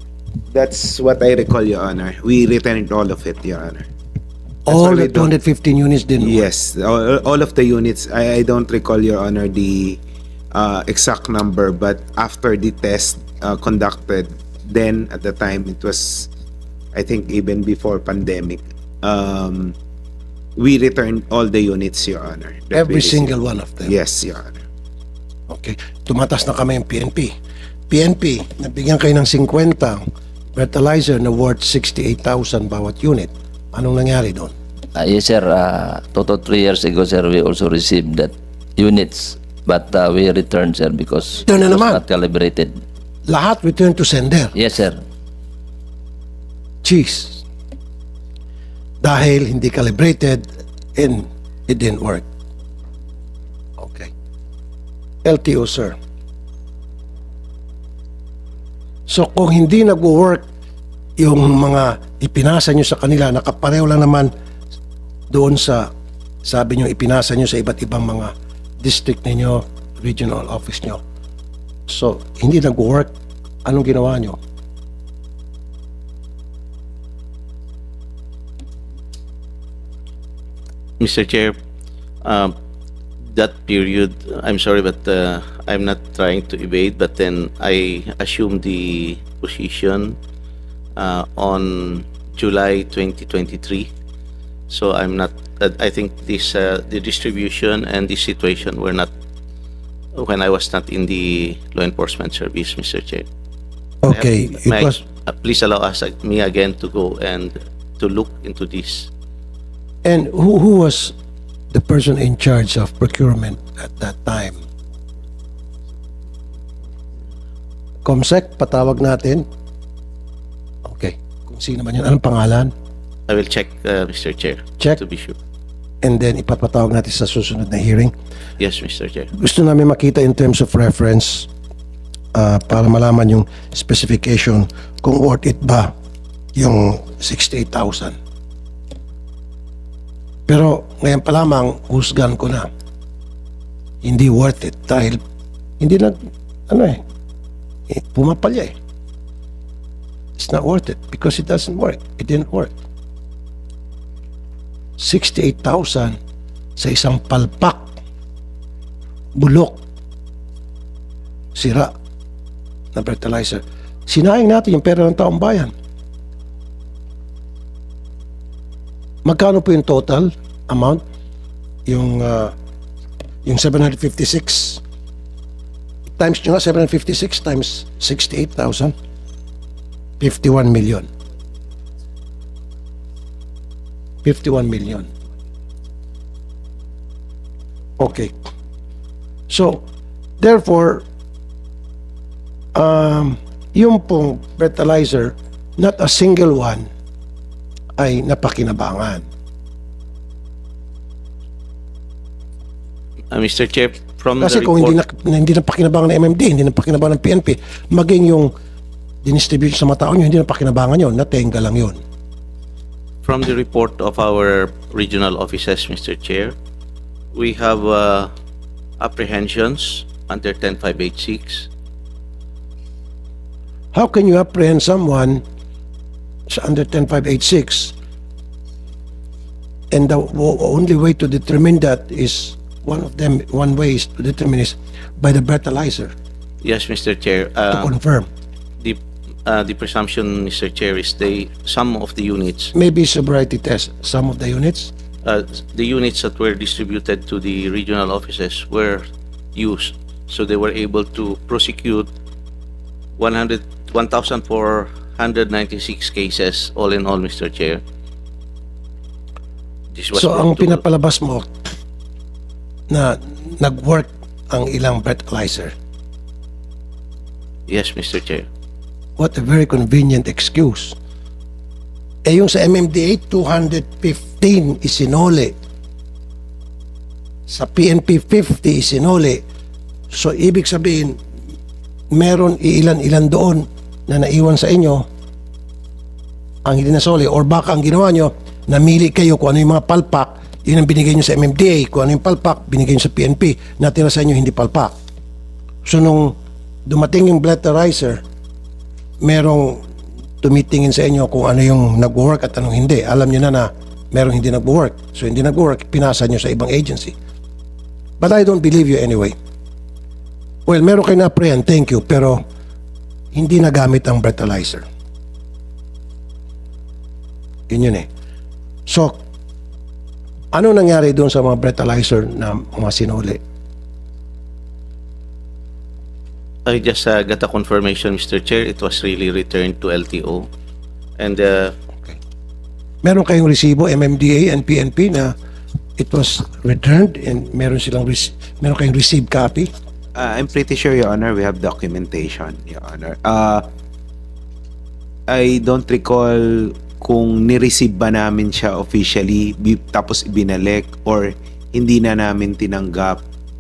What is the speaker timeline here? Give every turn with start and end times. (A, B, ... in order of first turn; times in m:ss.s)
0:00.5-0:03.9 A
0:04.7-0:06.5 B
0:04.7-0:05.3 A
0:06.2-0:10.0 A
0:10.5-0:16.3 A
0:16.9-0:19.8 A
0:20.6-0:24.6 A
0:22.7-0:23.9 B
0:25.5-0:27.3 B
0:27.9-0:30.0 B
0:30.6-0:34.5 B
0:35.0-0:42.8 C
0:41.5-0:42.0 B
0:43.3-0:44.6 B
0:44.5-0:45.0 C
0:46.8-0:47.4 B
0:49.0-0:52.2 B
0:53.8-0:54.1 B
0:55.2-0:56.0 B
0:59.1-1:00.4 B
1:01.2-1:04.3 B
1:05.3-1:05.9 B
1:06.4-1:11.0 B
1:11.9-1:13.1 B
1:13.7-1:14.4 B
1:21.0-1:21.6 D
1:22.2-1:22.5 D
1:23.3-1:30.2 D
1:31.0-1:33.9 D
1:34.7-1:39.1 D
1:40.2-1:43.3 D
1:44.0-1:45.0 B
1:44.1-1:49.1 D
1:50.0-1:51.1 B
1:51.7-1:54.6 B
1:58.0-1:59.5 B
2:00.8-2:02.7 B
2:03.3-2:05.4 D
2:06.0-2:08.1 B
2:08.6-2:09.3 D
2:09.4-2:11.5 B
2:12.4-2:15.9 B
2:16.6-2:18.2 B
2:20.5-2:22.7 B
2:24.0-2:25.2 B
2:25.8-2:26.2 B
2:26.7-2:27.0 B
2:27.9-2:28.7 B
2:30.4-2:32.7 B
2:35.0-2:36.2 B
2:36.8-2:37.9 B
2:39.4-2:39.8 B
2:41.6-2:41.9 B
2:43.0-2:45.7 B
2:49.2-2:51.0 B
2:51.9-2:52.5 B
2:53.4-2:54.8 B
2:56.2-2:58.9 B
3:00.2-3:01.1 B
3:04.2-3:05.1 B
3:08.0-3:08.3 B
3:09.5-3:09.8 B
3:10.4-3:11.0 B
3:12.8-3:16.9 B
3:18.0-3:19.3 B
3:23.3-3:25.0 D
3:24.4-3:28.5 B
3:29.2-3:32.0 B
3:33.2-3:36.5 D
3:37.3-3:38.3 D
3:39.0-3:41.7 D
3:43.9-3:45.4 B
3:46.5-3:47.9 B
3:49.9-3:56.1 B
3:56.6-3:57.9 D
3:57.7-3:58.3 B
3:58.8-4:02.7 D
4:02.7-4:04.9 B
4:05.2-4:09.0 D
4:09.6-4:12.1 D
4:13.2-4:17.8 D
4:19.9-4:20.8 D
4:20.1-4:21.7 B
4:22.9-4:25.7 B
4:27.7-4:28.5 D
4:29.2-4:31.0 B
4:32.3-4:35.5 B
4:37.5-4:39.4 B
4:40.1-4:41.2 B
4:42.1-4:45.1 B
4:46.6-4:54.9 B
4:55.8-4:56.4 B
4:56.9-4:58.2 B
4:59.2-4:59.8 B
5:00.4-5:07.1 B
5:08.2-5:09.4 B
5:10.7-5:12.4 B
5:13.3-5:14.9 B
5:17.7-5:18.1 B
5:18.9-5:19.2 B
5:20.5-5:23.4 B
5:26.7-5:30.5 D
5:31.2-5:31.7 D
5:33.0-5:35.3 B
5:36.0-5:39.7 B
5:40.2-5:43.6 A
5:45.3-5:53.2 A